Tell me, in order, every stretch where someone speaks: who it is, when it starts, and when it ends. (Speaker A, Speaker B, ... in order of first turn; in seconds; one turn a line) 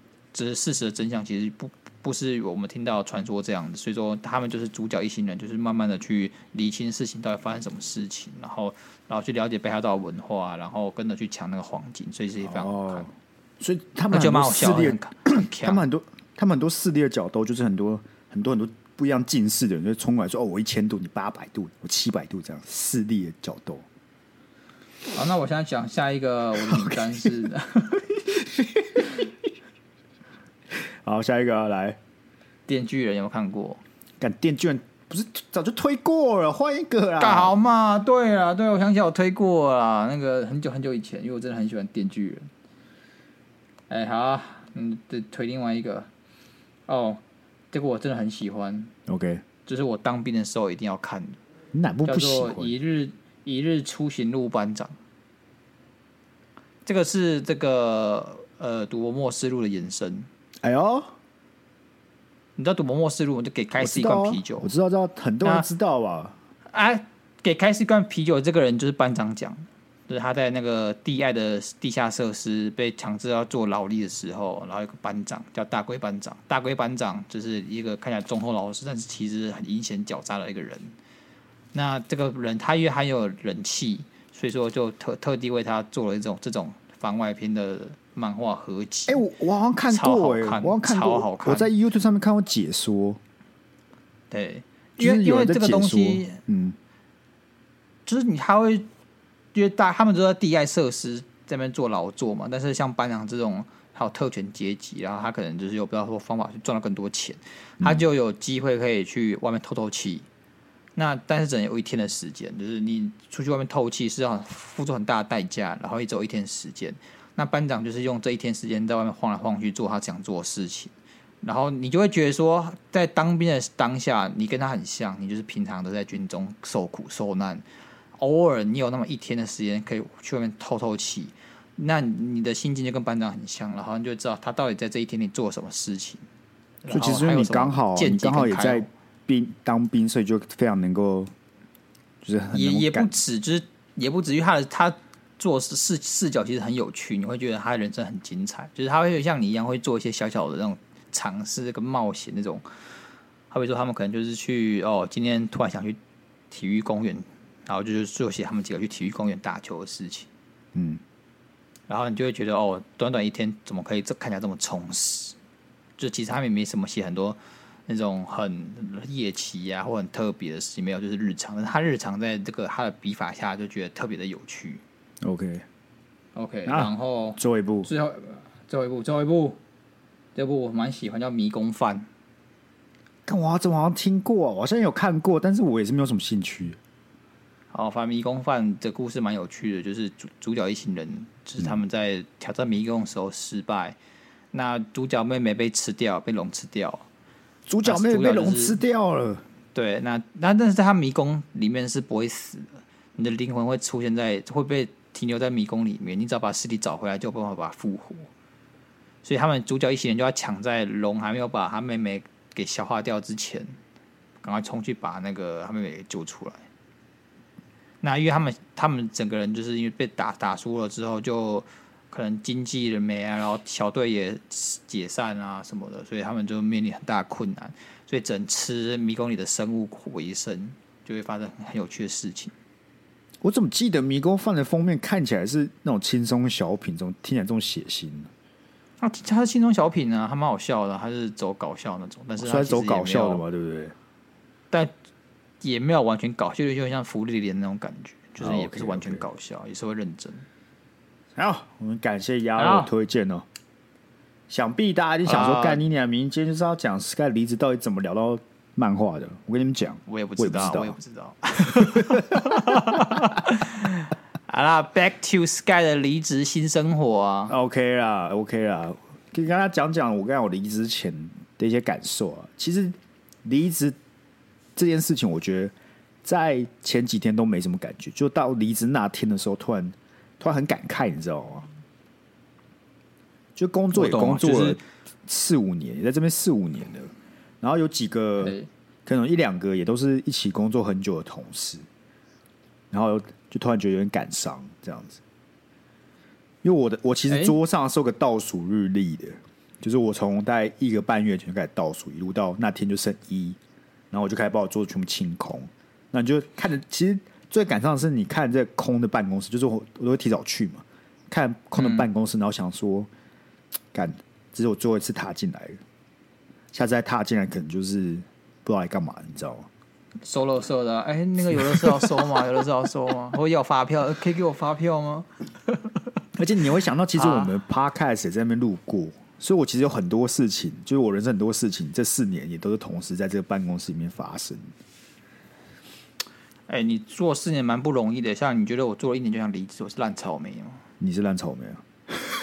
Speaker A: 0.3-13.1
Speaker B: 12.4-23.8
Speaker A: 14.1-15.8
Speaker A: 25.1-28.4
Speaker B: 26.7-27.2
Speaker B: 28.5-29.1
Speaker B: 31.0-32.0
Speaker A: 32.7-33.8
Speaker B: 34.2-37.5
Speaker A: 37.2-42.5
Speaker A: 43.9-46.1
Speaker A: 46.9-47.2
Speaker A: 47.7-48.9
Speaker B: 49.1-49.4
Speaker A: 49.6-51.4
Speaker B: 51.7-52.7
Speaker A: 52.0-55.0
Speaker A: 56.9-60.3
Speaker B: 60.6-61.1
Speaker A: 62.6-64.7
Speaker B: 63.8-66.3
Speaker A: 66.7-81.0
Speaker A: 81.7-89.2
Speaker B: 89.1-93.2
Speaker A: 89.9-91.7
Speaker A: 94.3-96.4
Speaker B: 95.0-96.8
Speaker A: 98.0-98.9
Speaker A: 99.5-110.2
Speaker A: 111.0-127.6
Speaker A: 128.2-136.2
Speaker A: 136.8-138.9
Speaker B: 136.9-141.3
Speaker B: 142.2-143.2
Speaker A: 142.5-152.6
Speaker A: 153.5-156.0
Speaker A: 156.5-160.3
Speaker B: 160.7-161.0
Speaker A: 161.9-165.3
Speaker A: 166.0-174.8
Speaker B: 175.2-175.6
Speaker A: 176.3-179.6
Speaker B: 176.7-177.9
Speaker A: 180.3-182.1
Speaker B: 183.3-186.8
Speaker A: 187.7-194.0
Speaker A: 194.5-197.1
Speaker B: 197.7-199.4
Speaker A: 197.8-198.8
Speaker A: 199.7-208.3
Speaker A: 209.2-213.7
Speaker A: 214.4-216.6
Speaker A: 218.0-232.5
Speaker B: 233.4-238.3
Speaker A: 239.0-243.4
Speaker B: 242.4-243.9
Speaker A: 245.6-250.4
Speaker B: 248.4-249.2
Speaker B: 251.3-253.4
Speaker A: 252.6-252.9
Speaker B: 254.5-260.9
Speaker A: 255.2-255.8
Speaker A: 260.1-267.5
Speaker B: 261.8-262.9
Speaker B: 267.5-274.0
Speaker B: 274.8-275.7
Speaker B: 276.2-281.7
Speaker B: 283.6-291.9
Speaker A: 283.9-284.8
Speaker A: 288.4-288.7
Speaker B: 292.9-295.2
Speaker B: 296.6-303.6
Speaker A: 297.3-297.6
Speaker B: 304.1-313.1
Speaker A: 311.8-312.1
Speaker B: 313.9-315.8
Speaker B: 316.7-319.7
Speaker A: 320.2-326.0
Speaker B: 326.4-334.7
Speaker A: 327.1-327.5
Speaker A: 336.7-340.8
Speaker B: 341.0-341.8